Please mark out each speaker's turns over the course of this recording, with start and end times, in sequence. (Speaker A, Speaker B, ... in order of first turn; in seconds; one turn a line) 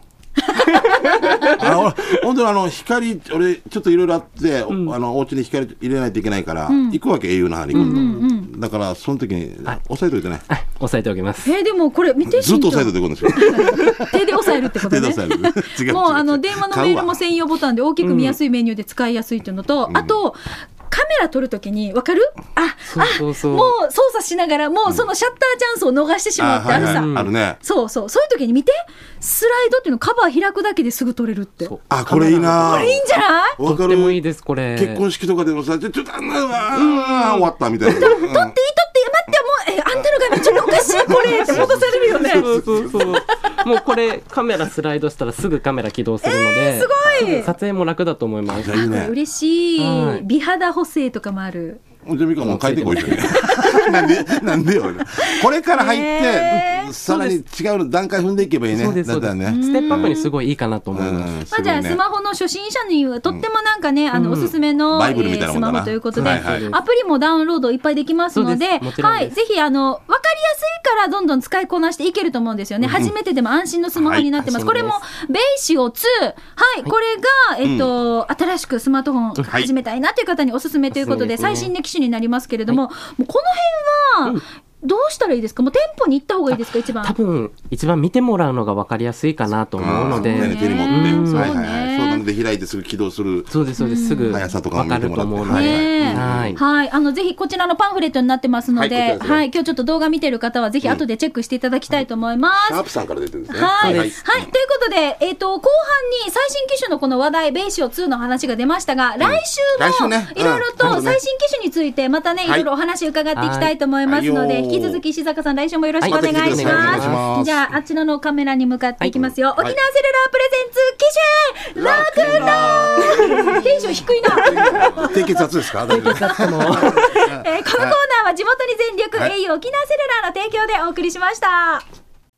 Speaker A: 0.5-1.6
Speaker B: 0.7-1.8
Speaker C: 1.3-10.4
Speaker B: 4.7-5.0
Speaker A: 6.7-7.0
Speaker A: 7.7-8.5
Speaker B: 7.7-8.2
Speaker B: 10.5-11.5
Speaker A: 11.4-27.1
Speaker C: 12.2-17.2
Speaker B: 18.0-18.4
Speaker C: 19.9-20.1
Speaker B: 22.9-23.8
Speaker C: 26.4-27.6
Speaker B: 26.7-27.3
Speaker A: 27.6-33.6
Speaker B: 31.6-32.9
Speaker C: 31.9-33.0
Speaker C: 33.6-34.2
Speaker B: 33.6-35.0
Speaker C: 34.7-38.5
Speaker B: 36.7-37.5
Speaker A: 37.8-42.5
Speaker C: 40.3-43.2
Speaker B: 41.4-48.8
Speaker A: 46.2-47.5
Speaker C: 47.0-47.4
Speaker C: 48.5-49.1
Speaker A: 48.7-51.8
Speaker B: 49.8-50.2
Speaker C: 52.0-60.1
Speaker B: 52.4-53.3
Speaker A: 53.4-54.2
Speaker A: 55.2-57.0
Speaker B: 57.1-57.4
Speaker B: 58.7-61.3
Speaker A: 59.5-60.3
Speaker C: 60.9-62.0
Speaker A: 61.5-87.2
Speaker B: 64.1-64.5
Speaker C: 64.9-66.7
Speaker B: 66.2-66.8
Speaker B: 68.3-69.3
Speaker C: 74.0-74.3
Speaker B: 74.4-75.0
Speaker C: 77.6-77.9
Speaker B: 80.9-81.7
Speaker B: 86.5-91.5
Speaker C: 89.8-93.5
Speaker A: 90.2-92.2
Speaker B: 93.5-96.6
Speaker A: 93.8-94.4
Speaker C: 94.3-96.6
Speaker A: 95.5-102.8
Speaker C: 98.8-99.4
Speaker C: 102.5-104.5
Speaker A: 103.5-125.4
Speaker B: 103.8-104.1
Speaker C: 109.2-111.2
Speaker B: 110.8-111.1
Speaker B: 113.4-113.7
Speaker C: 114.1-115.0
Speaker B: 116.0-117.3
Speaker C: 116.0-117.6
Speaker C: 119.1-119.8
Speaker C: 121.8-128.0
Speaker B: 122.2-123.6
Speaker B: 124.6-125.0
Speaker B: 125.8-127.3
Speaker A: 126.0-131.8